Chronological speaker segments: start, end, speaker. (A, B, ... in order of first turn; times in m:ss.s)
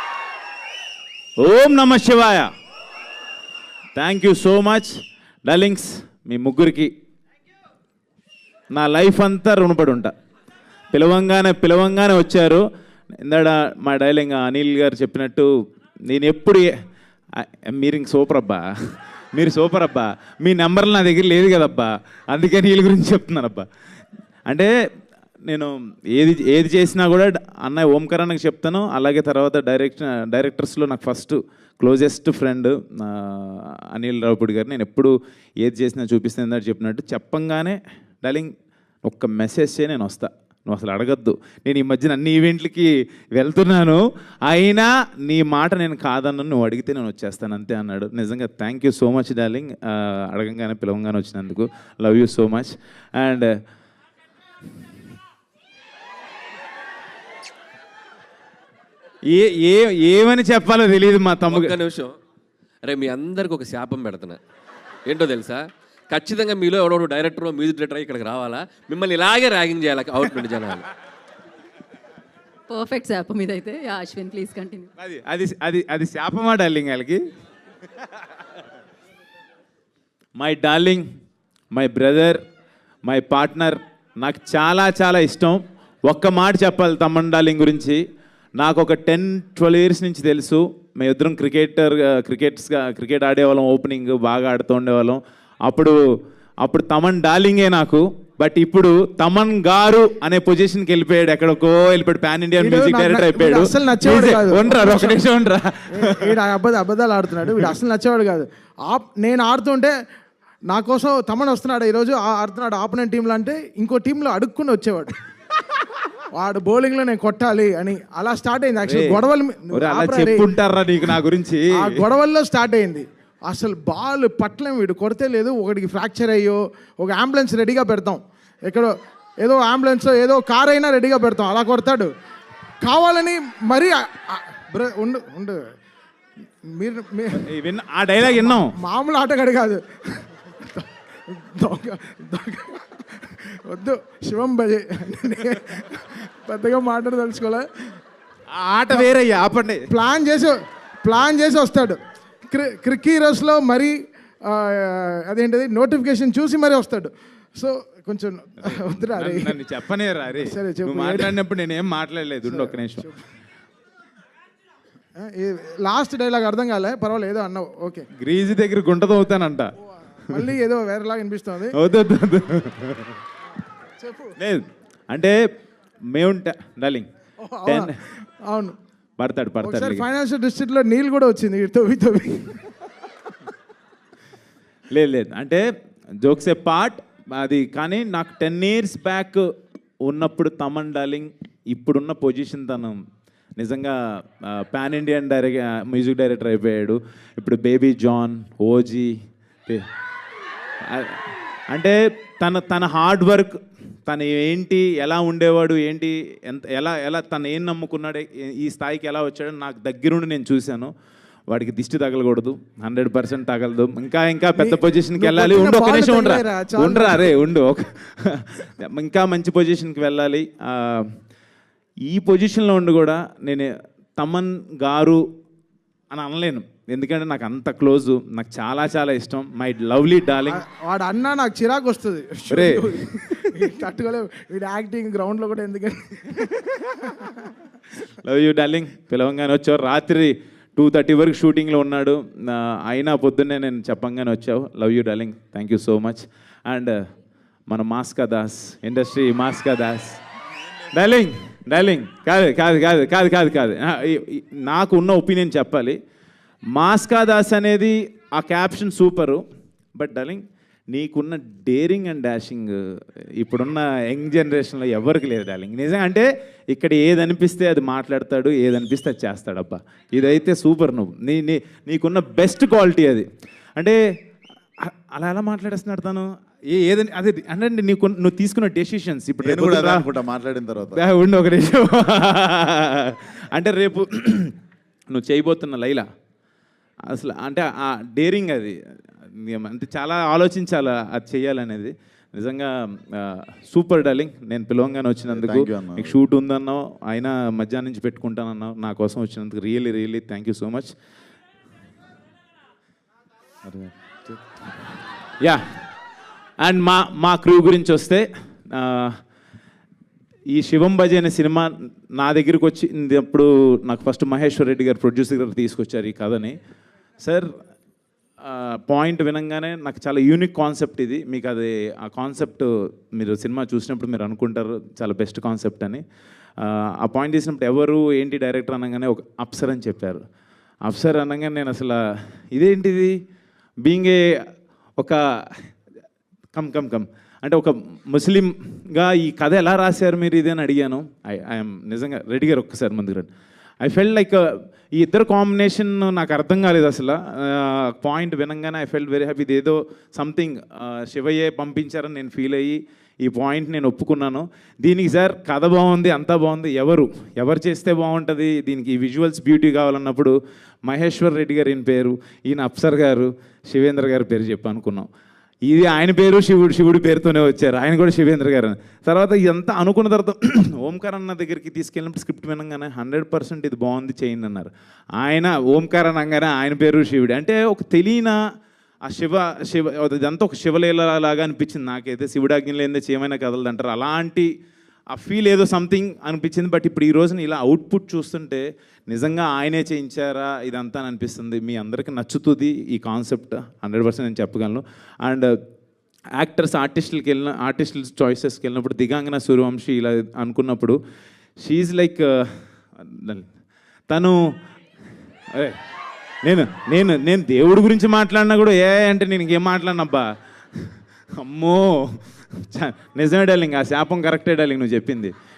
0:01.4-0:02.5 A
0:04.0-0:06.9 A
0:08.7-0:10.1 A
0:10.9-0:12.6 A
0:13.2-0:15.5 A
0:16.1-0:16.7 A
0:17.4-0:18.6 A
0:19.3-0:23.7 A
0:25.5-0:53.5 A
0:59.3-1:01.8 A
1:01.5-1:02.2 B
1:02.8-1:04.4 B
1:05.0-1:10.8 B
1:12.7-1:14.9 C
1:15.0-1:17.3 A
1:20.4-1:21.0 A
1:21.7-1:22.4 A
1:23.0-1:28.0 A
1:28.6-1:36.0 A
1:36.6-1:46.4 A
1:42.6-1:45.2 D
1:45.9-1:49.9 D
1:47.4-1:47.7 A
1:50.7-1:55.2 D
1:56.3-2:00.5 D
1:58.8-2:02.0 A
2:01.7-2:12.1 D
2:12.8-2:15.6 D
2:16.6-2:17.5 D
2:17.3-2:18.7 A
2:18.2-2:27.8 D
2:28.5-2:29.9 A
2:29.9-2:39.6 D
2:38.7-2:43.1 A
2:40.2-2:41.4 D
2:42.5-2:43.2 D
2:45.2-2:48.1 D
2:48.2-2:49.7 A
2:50.3-2:51.8 D
2:51.7-2:53.2 A
2:54.0-2:54.3 D
2:54.4-2:55.4 A
2:56.1-2:57.1 A
2:57.4-2:58.8 D
2:57.6-2:57.9 A
2:59.2-3:00.0 A
2:59.6-3:02.7 D
3:04.9-3:05.6 A
3:06.2-3:09.5 A
3:10.0-3:13.0 A
3:13.6-3:19.1 A
3:20.9-3:30.9 A
3:31.5-3:41.1 A
3:34.6-3:37.3 D
3:42.0-3:45.2 A
3:46.1-3:50.6 A
3:50.5-3:57.5 D
3:52.5-3:53.6 A
3:58.2-4:07.0 A
4:07.7-4:10.2 A
4:10.9-4:16.0 A
4:16.7-4:19.4 A
4:19.9-4:22.8 A
4:23.4-4:33.2 A
4:34.8-4:40.1 A
4:39.4-4:41.0 E
4:40.9-4:44.5 A
4:45.1-4:46.0 A
4:47.1-4:48.7 A
4:49.4-5:00.9 A
4:55.3-4:56.2 E
5:03.6-5:04.4 E
5:06.6-5:09.2 A
5:10.5-5:16.6 A
5:17.2-5:17.5 A
5:18.4-5:26.0 A
5:26.6-5:30.2 A
5:30.8-5:32.0 A
5:32.5-5:33.2 A
5:33.8-5:35.7 A
5:36.5-5:43.3 A
5:43.8-6:05.1 A
6:05.6-6:18.4 A
6:19.0-6:24.5 A
6:25.1-6:35.6 A
6:36.4-6:41.0 A
6:41.6-6:43.5 A
6:44.1-6:44.4 A
6:45.5-6:45.8 A
6:46.4-6:50.3 A
6:51.4-6:55.3 A